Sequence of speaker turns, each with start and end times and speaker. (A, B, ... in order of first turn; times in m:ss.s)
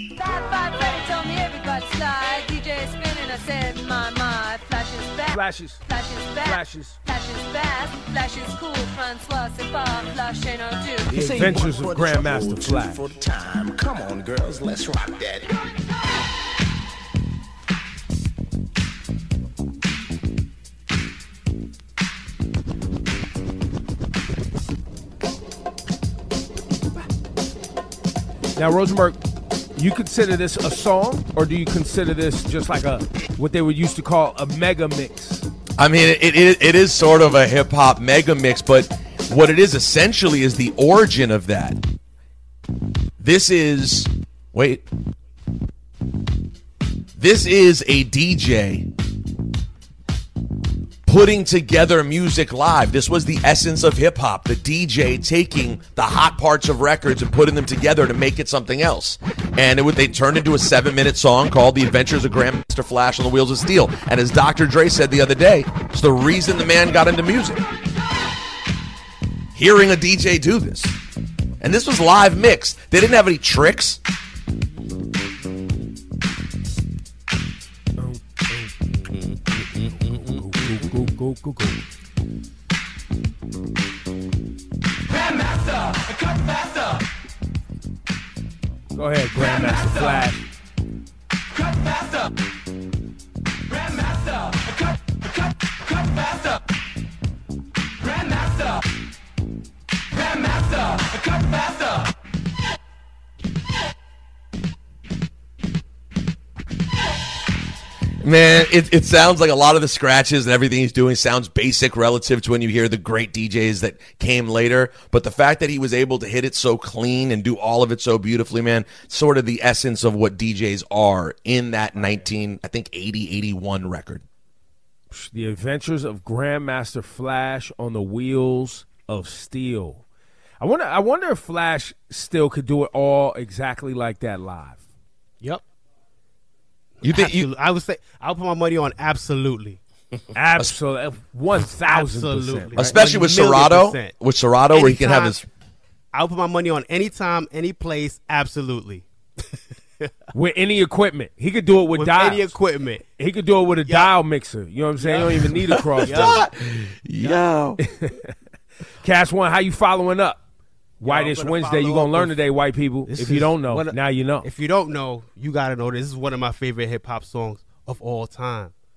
0:00.2-0:11.1 A
0:05.3-0:05.8 B
0:06.4-0:07.0 B
0:11.1-0:15.5 C
0:11.1-0:13.1 B
0:28.6-0:29.2 B
0:29.8-0:35.5 B
0:35.8-0:41.8 D
0:43.2-0:44.8 D
0:47.2-0:48.9 D
0:51.1-1:07.6 D
1:09.6-1:11.0 D
1:11.6-1:14.0 D
1:20.0-1:21.8 B
1:29.0-1:30.4 B
1:48.2-2:04.2 D
2:05.1-2:10.0 B
2:10.6-2:14.8 B
2:17.0-2:19.8 E
2:17.0-2:17.5 D
2:20.3-2:23.0 B
2:21.9-2:24.1 E
2:22.8-2:25.5 D
2:24.7-2:25.4 E
2:26.1-2:29.1 E
2:30.3-2:32.6 B
2:31.9-2:33.0 E
2:33.2-2:36.4 B
2:33.9-2:34.1 E
2:35.0-2:36.5 E
2:35.8-2:37.8 D
2:37.8-2:38.3 B
2:39.0-2:40.4 B
2:41.0-2:44.5 B
2:41.0-2:42.4 E
2:43.1-2:48.7 E